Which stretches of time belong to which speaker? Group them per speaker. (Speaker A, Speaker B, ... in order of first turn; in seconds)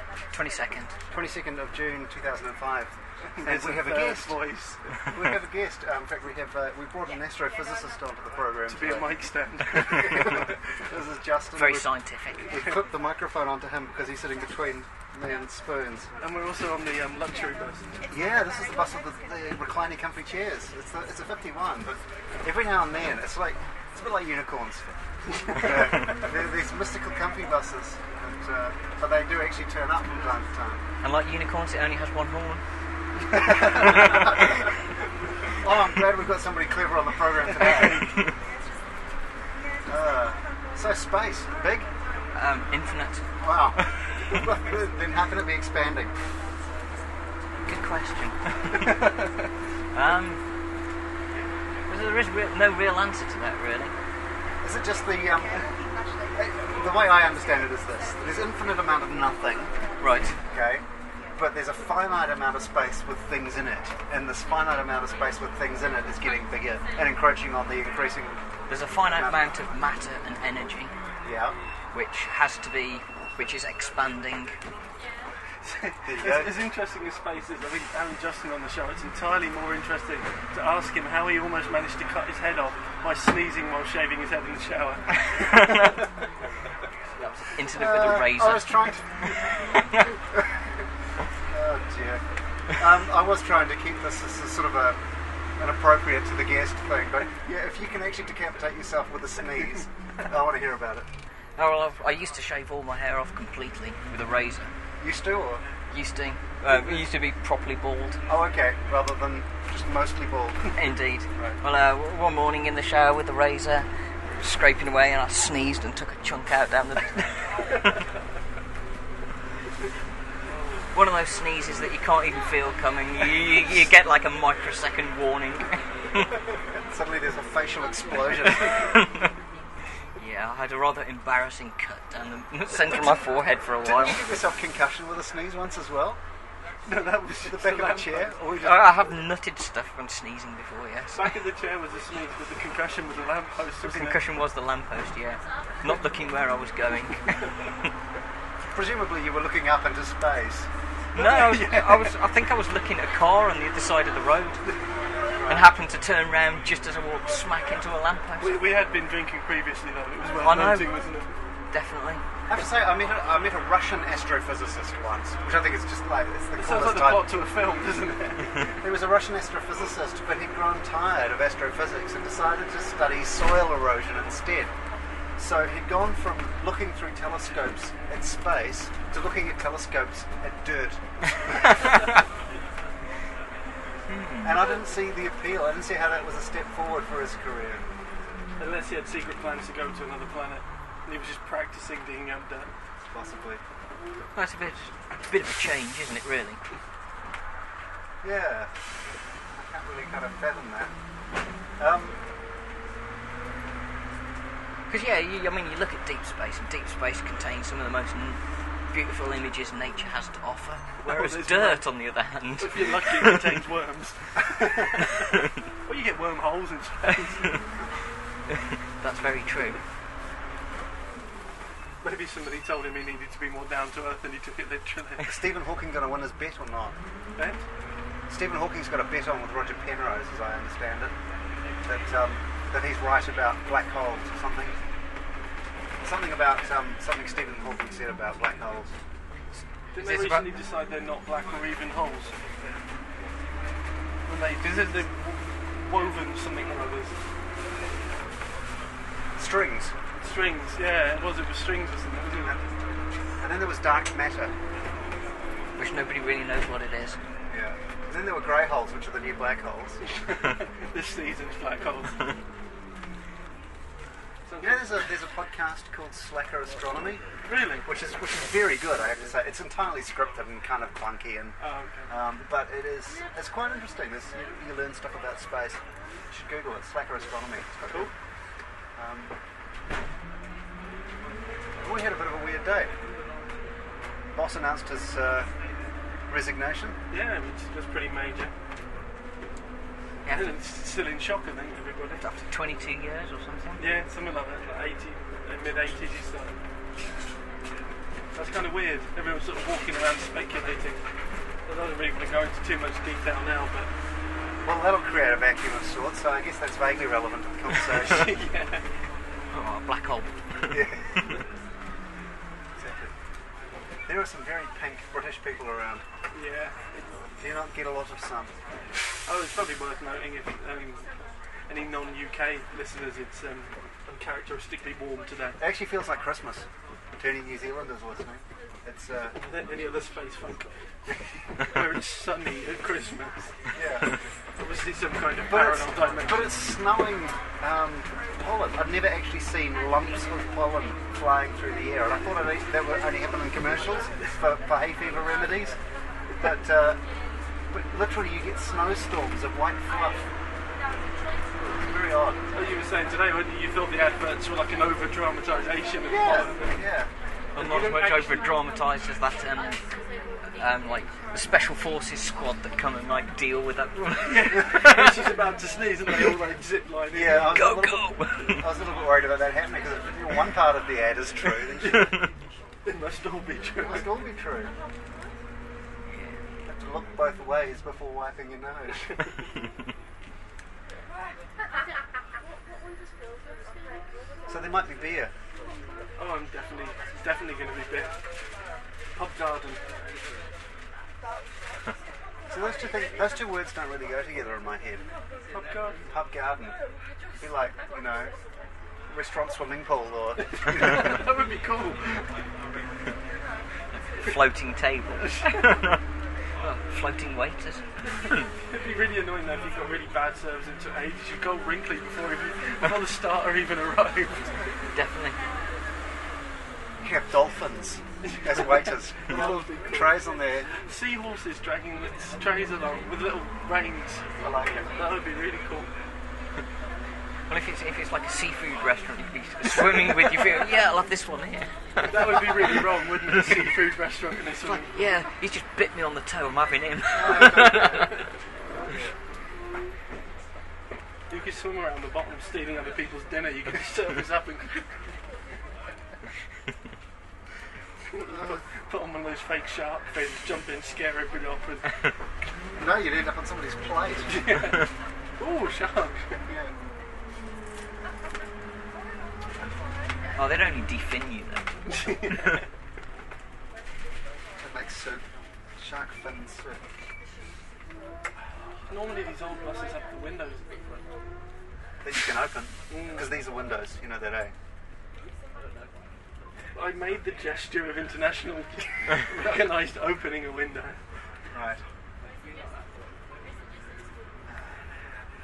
Speaker A: 0.3-0.9, 11.5-12.5, 31.0-32.6, 33.4-34.3, 42.3-43.2, 47.7-49.0, 49.9-50.4, 51.9-53.9, 60.0-60.3, 68.7-70.9, 71.9-74.5, 87.2-88.8, 101.6-104.7, 105.9-108.2, 110.7-113.9, 114.4-117.3, 120.9-125.8, 130.2-134.2, 138.6-141.3, 143.8-147.4, 151.1-154.6, 155.5-158.6, 160.4-160.9, 161.7-162.2, 184.1-184.6, 194.3-196.6, 204.9-208.4, 208.9-213.4, 219.0-219.8, 239.9-240.5, 255.8-257.2, 290.2-290.6, 292.2-293.9, 309.5-311.2, 357.6-359.8, 360.6-365.2, 367.5-368.7, 376.1-376.4, 404.1-405.9, 406.6-407.8, 414.9-415.4, 427.5-432.8, 434.9-438.1, 460.4-461.6
Speaker B: 1.1-2.9, 3.4-4.4, 5.1-9.1, 9.7-11.9, 12.5-16.1, 18.1-30.8, 33.3-34.4, 35.6-38.0, 39.9-41.9, 43.4-46.1, 54.6-55.7, 56.3-59.7, 60.5-60.8, 61.4-68.4, 69.1-69.5, 71.2-71.5, 76.0-76.6, 87.7-89.0, 91.5-92.2, 92.8-95.0, 95.6-101.1, 105.0-105.6, 106.7-107.0, 108.3-110.7, 126.7-128.8, 133.8-136.2, 137.4-139.2, 148.7-150.7, 155.3-155.7, 162.5-167.3, 168.6-174.7, 175.4-181.7, 184.4-187.8, 193.0-193.6, 198.2-198.7, 199.5-200.9, 201.8-202.2, 225.2-226.9, 228.3-231.1, 231.8-234.8, 236.0-238.9, 249.4-249.9, 253.4-254.5, 257.5-260.0, 264.6-267.2, 267.8-275.8, 276.3-278.1, 279.0-279.3, 281.8-282.9, 284.3-285.5, 286.3-287.0, 304.6-308.3, 310.7-311.0, 312.8-313.1, 314.1-316.0, 317.4-318.5, 325.6-326.6, 327.2-329.4, 333.7-334.1, 335.5-345.8, 346.4-347.0, 347.7-350.2, 351.6-352.4, 356.1-357.1, 367.1-372.1, 373.8-374.7, 376.6-379.1, 384.5-385.3, 392.5-395.0, 396.1-396.8, 397.4-398.3, 399.1-401.2, 417.0-420.7, 424.4-424.9, 437.1-438.1, 438.9-439.1, 452.8-454.6, 456.5-456.7, 464.6-465.2, 465.8-466.8, 472.0-474.5, 481.5-481.8, 484.5-484.9
Speaker C: 3.4-5.0, 8.7-10.5, 16.2-17.9, 75.6-85.2, 136.8-138.3, 141.1-144.2, 151.2-152.1, 158.4-161.3, 166.6-168.5, 188.6-192.7, 211.0-211.8, 212.6-215.1, 215.8-217.6, 222.0-225.3, 227.3-227.6, 239.9-242.3, 244.2-247.1, 250.2-252.6, 260.3-262.2, 264.5-265.0, 267.4-267.9, 271.6-272.1, 287.1-288.5, 290.3-292.2, 293.8-296.5, 298.3-301.0, 301.7-303.9, 308.0-308.8, 316.3-317.2, 319.2-321.1, 321.7-325.6, 329.4-330.7, 331.6-333.4, 334.6-336.6, 352.5-356.7, 357.6-358.5, 364.2-367.6, 371.8-372.2, 372.9-374.1, 386.2-388.2, 389.1-389.8, 395.5-396.0, 400.5-402.2, 405.4-405.8, 408.6-414.6, 418.3-420.2, 420.8-424.2, 424.9-425.9, 432.0-434.9, 441.3-444.8, 448.1-451.9, 454.2-456.4, 461.9-462.6, 468.9-470.7, 472.9-473.3, 476.7-481.0